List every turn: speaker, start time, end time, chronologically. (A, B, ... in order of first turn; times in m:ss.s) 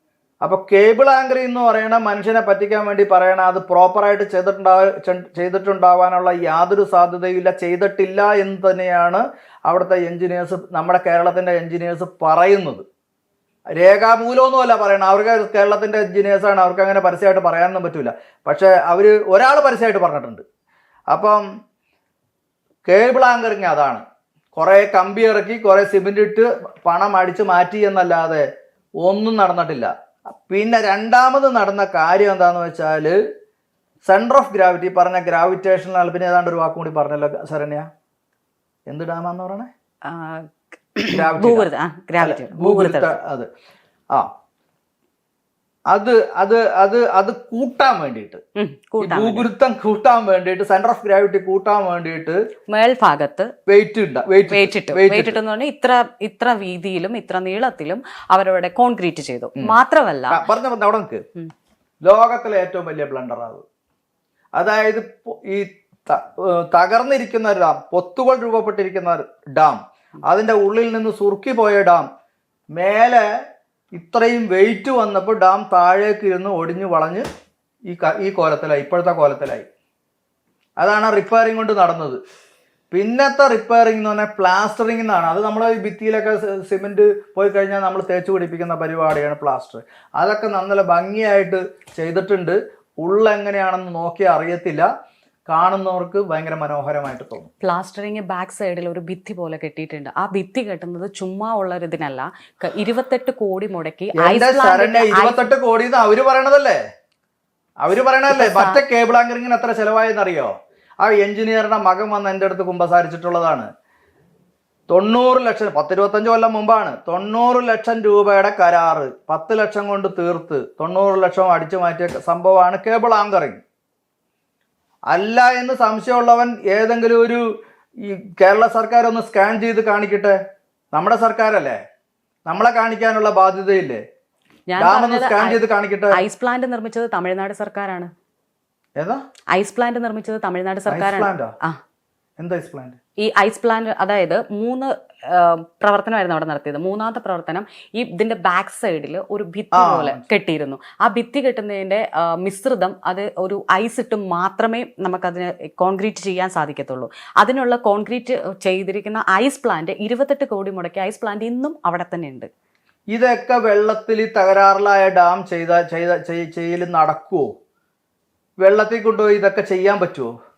0:00.4-0:12.8 A
0:13.7-0:20.4 A
0:21.1-0:21.4 A
0:22.8-0:24.0 A
0:24.6-0:28.4 A
0:29.0-0:33.2 A
0:34.0-0:37.9 A
0:38.9-0:39.7 A
0:40.0-0:43.1 B
0:41.1-0:41.7 A
0:42.2-0:43.5 A
0:45.9-0:48.4 A
0:48.6-0:49.5 B
0:49.0-0:52.4 A
0:52.7-0:53.5 B
0:53.7-0:55.4 A
0:54.5-1:00.4 B
1:00.3-1:01.2 A
1:02.0-1:03.6 A
1:04.6-1:12.0 A
1:12.7-1:13.2 A
1:13.9-1:17.2 A
1:17.9-1:19.6 A
1:20.8-1:22.2 A
1:22.9-1:34.9 A
1:35.5-1:37.5 A
1:37.6-1:45.4 B
1:44.2-1:46.8 A
1:47.8-1:53.7 A
1:48.3-1:48.8 B
1:54.9-2:03.6 A
2:05.1-2:07.4 A
2:08.0-2:10.4 A
2:10.9-2:11.8 A
2:12.5-2:14.0 A
2:14.7-2:15.6 B
2:14.8-2:16.2 A
2:16.1-2:18.1 B
2:19.5-2:21.8 B
2:20.9-2:21.5 A
2:22.4-2:23.0 A
2:23.2-2:42.5 B
2:29.7-2:30.2 A
2:43.1-2:47.5 A
2:48.6-2:50.3 A